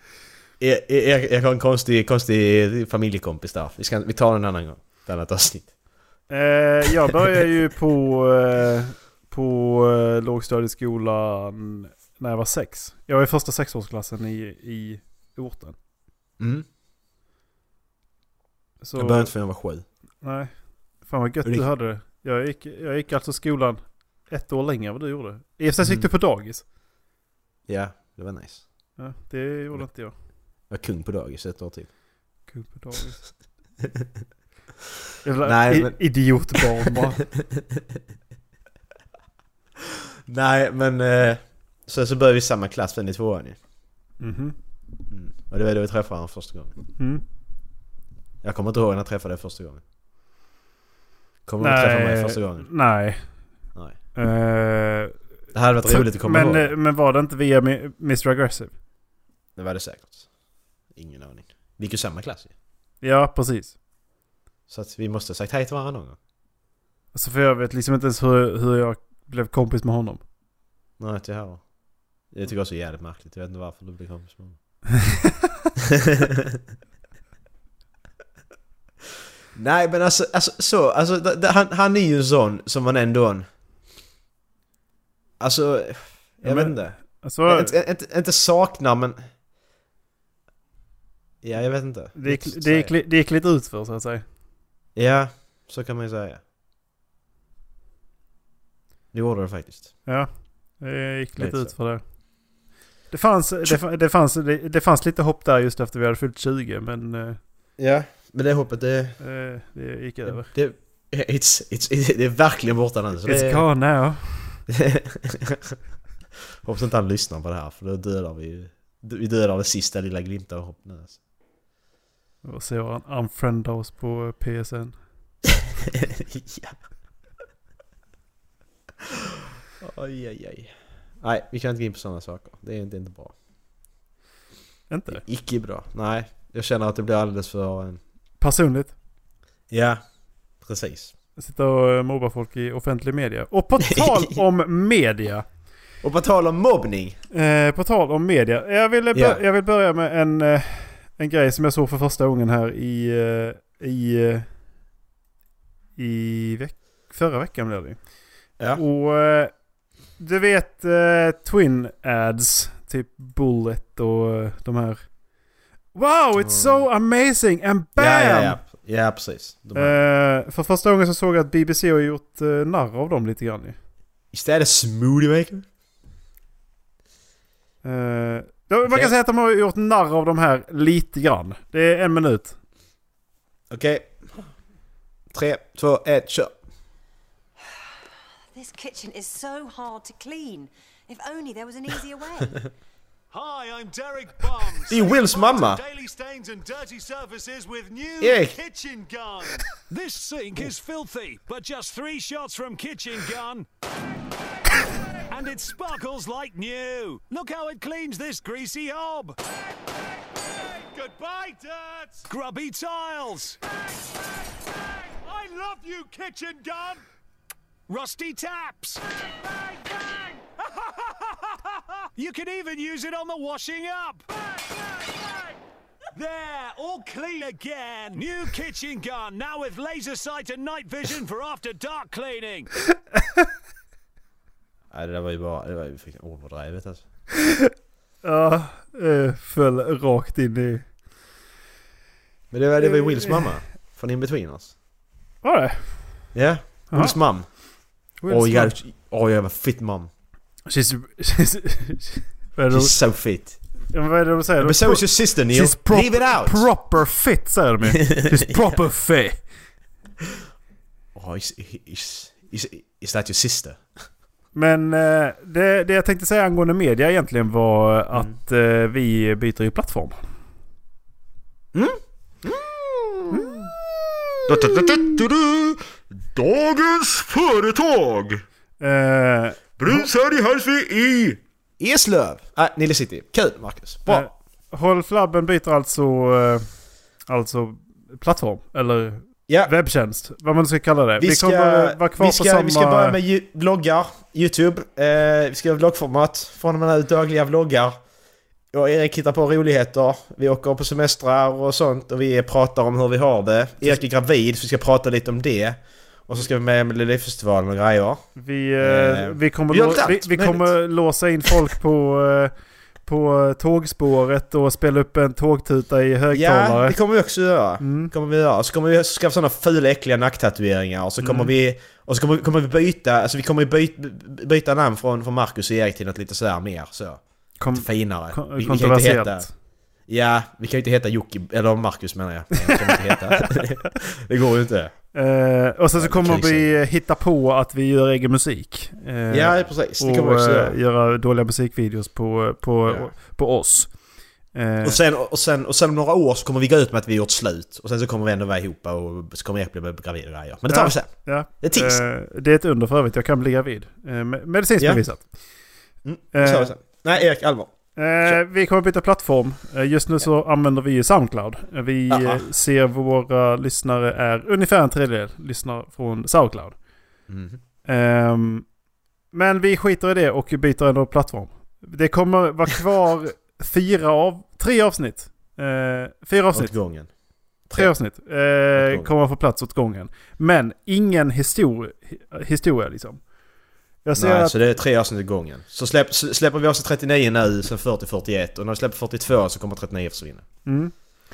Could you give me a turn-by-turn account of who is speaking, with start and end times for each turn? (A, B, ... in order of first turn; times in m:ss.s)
0:00.6-0:05.7 A
0:06.3-0:15.8 B
0:16.4-0:16.7 A
0:18.8-0:19.3 B
0:19.0-0:19.8 A
0:20.2-0:26.6 B
0:25.8-0:26.1 A
0:27.7-0:28.6 A
0:29.0-0:30.1 B
0:30.7-0:31.9 A
0:32.5-0:33.2 B
0:35.2-0:37.2 B
0:35.4-0:36.6 A
0:37.6-0:37.8 A
0:40.3-0:43.6 A
0:44.2-0:44.6 B
0:45.1-0:46.7 A
0:48.4-0:49.8 A
0:51.5-0:52.7 A
0:51.6-0:53.2 B
0:54.2-0:55.1 B
0:55.5-0:56.7 A
0:55.9-0:58.7 B
0:59.6-1:00.3 A
1:00.9-1:02.5 A
1:03.0-1:03.8 B
1:04.7-1:06.2 A
1:07.1-1:10.2 B
1:11.0-1:11.6 A
1:12.3-1:14.6 A
1:16.0-1:16.6 A
1:19.6-1:23.5 A
1:25.4-1:29.2 A
1:26.4-1:27.7 B
1:31.4-1:32.9 A
1:32.2-1:34.2 B
1:35.0-1:36.4 A
1:39.1-1:39.9 A
1:40.1-1:42.0 B
1:41.4-1:41.7 A
1:43.1-1:47.4 B
1:47.8-1:49.2 A
1:49.2-1:50.5 B
1:50.3-1:53.6 A
1:53.3-1:54.6 B
1:54.7-1:55.8 A
1:56.6-2:01.2 A
2:02.4-2:05.0 B
2:05.9-2:06.8 A
2:09.8-2:13.4 A
2:14.9-2:15.2 B
2:15.1-2:18.0 A
2:18.4-2:18.9 B
2:19.7-2:20.0 A
2:20.6-2:21.1 A
2:21.4-2:25.4 B
2:23.8-2:24.4 A
2:26.0-2:27.2 A
2:27.3-2:34.5 B
2:29.1-2:29.4 A
2:36.0-2:38.0 B
2:38.8-2:39.5 B
2:40.2-2:45.0 B
2:46.0-2:48.6 B
2:46.4-2:46.9 A
2:48.0-2:50.0 A
2:49.8-2:53.8 B
2:54.3-2:55.7 A
2:57.8-3:02.6 B
2:58.9-2:59.1 A
3:03.7-3:04.4 A
3:05.3-3:06.5 A
3:08.5-3:12.6 C
3:13.3-3:23.7 D
3:14.9-3:15.8 A
3:18.2-3:18.6 A
3:25.3-3:29.4 D
3:30.7-3:33.6 D
3:35.1-3:37.0 D
3:37.9-3:45.4 D
3:46.1-3:52.7 D
3:54.9-3:57.0 A
3:58.2-4:00.9 B
4:02.5-4:04.7 A
4:02.8-4:03.5 B
4:05.4-4:06.0 B
4:06.3-4:07.5 A
4:06.9-4:07.2 B
4:08.2-4:08.8 B
4:08.3-4:10.1 A
4:10.7-4:13.0 B
4:12.7-4:13.6 A
4:13.9-4:19.4 B
4:14.6-4:16.7 A
4:18.0-4:18.8 A
4:21.2-4:23.8 A
4:24.6-4:30.2 B
4:31.7-4:33.7 A
4:34.5-4:35.8 E
4:36.3-4:38.4 E
4:38.8-4:40.1 B
4:39.8-4:41.4 E
4:41.8-4:44.3 A
4:44.1-4:46.7 B
4:47.3-4:53.2 B
4:51.2-4:58.0 A
4:58.7-5:08.3 A
5:08.4-5:12.5 B
5:08.8-5:10.7 A
5:13.1-5:17.0 B
5:16.3-5:27.2 A
5:17.8-5:18.1 B
5:21.2-5:21.5 B
5:27.6-5:29.5 B
5:27.7-5:29.5 A
5:30.1-5:35.0 A
5:32.6-5:33.4 B
5:35.1-5:43.9 B
5:36.0-5:36.8 A
5:39.3-5:40.8 A
5:42.9-5:43.1 A
5:44.5-5:45.0 B
5:44.8-5:52.0 A
5:50.7-5:55.2 B
5:56.0-5:58.4 A
5:56.3-5:56.8 B
5:58.0-6:06.8 B
6:02.1-6:02.4 A
6:07.3-6:07.6 A
6:07.9-6:08.7 B
6:09.3-6:16.7 B
6:16.5-6:17.1 A
6:17.7-6:17.9 A
6:17.8-6:23.2 B
6:18.7-6:19.1 A
6:24.0-6:24.6 B
6:24.2-6:30.6 A
6:30.7-6:30.9 B